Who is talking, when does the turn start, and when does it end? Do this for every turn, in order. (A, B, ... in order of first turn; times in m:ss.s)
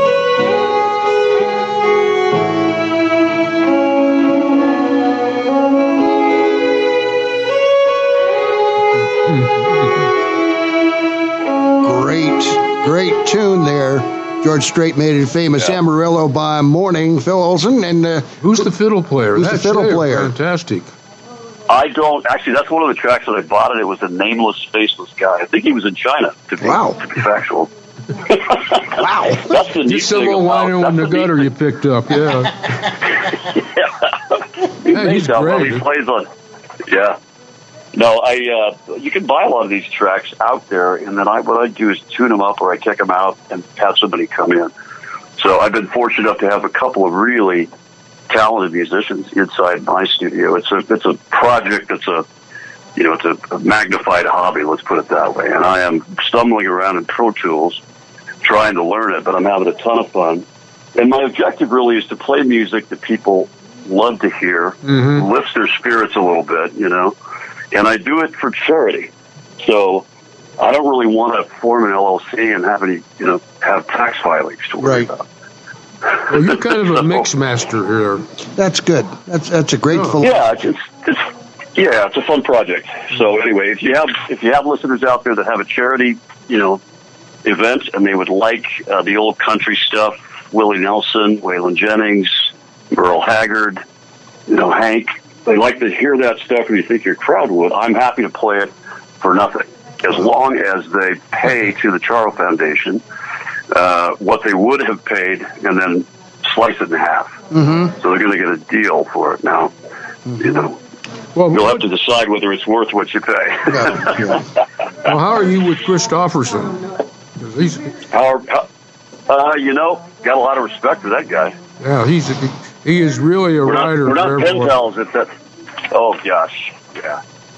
0:09.2-0:10.1 A
0:11.8-0:18.6 B
0:18.4-0:20.9 A
0:19.4-0:20.3 B
0:21.7-0:27.7 C
0:26.6-0:27.0 B
0:28.2-0:31.5 C
0:29.0-0:29.5 B
0:29.9-0:32.9 A
0:33.6-0:33.9 C
0:34.8-0:36.3 C
0:34.9-0:35.8 A
0:36.8-0:37.2 C
0:37.9-0:44.7 C
0:45.4-0:47.7 C
0:48.3-0:52.2 C
0:53.0-0:57.8 C
0:58.4-1:00.4 C
1:01.0-1:07.1 C
1:04.8-1:05.3 A
1:07.7-1:10.1 C
1:10.6-1:15.2 C
1:14.8-1:15.1 B
1:16.3-1:18.3 A
1:18.6-1:20.5 B
1:19.9-1:20.2 A
1:20.2-1:26.8 C
1:27.4-1:33.8 C
1:34.5-1:43.0 C
1:43.7-1:49.7 C
1:47.5-1:47.9 B
1:50.4-1:50.8 C
1:51.4-1:51.8 A
1:51.5-1:54.4 C
1:53.7-1:54.4 B
1:55.0-1:57.9 A
1:58.1-1:58.7 C
1:59.3-2:01.6 C
2:01.8-2:04.8 A
2:03.6-2:05.3 C
2:05.9-2:07.2 C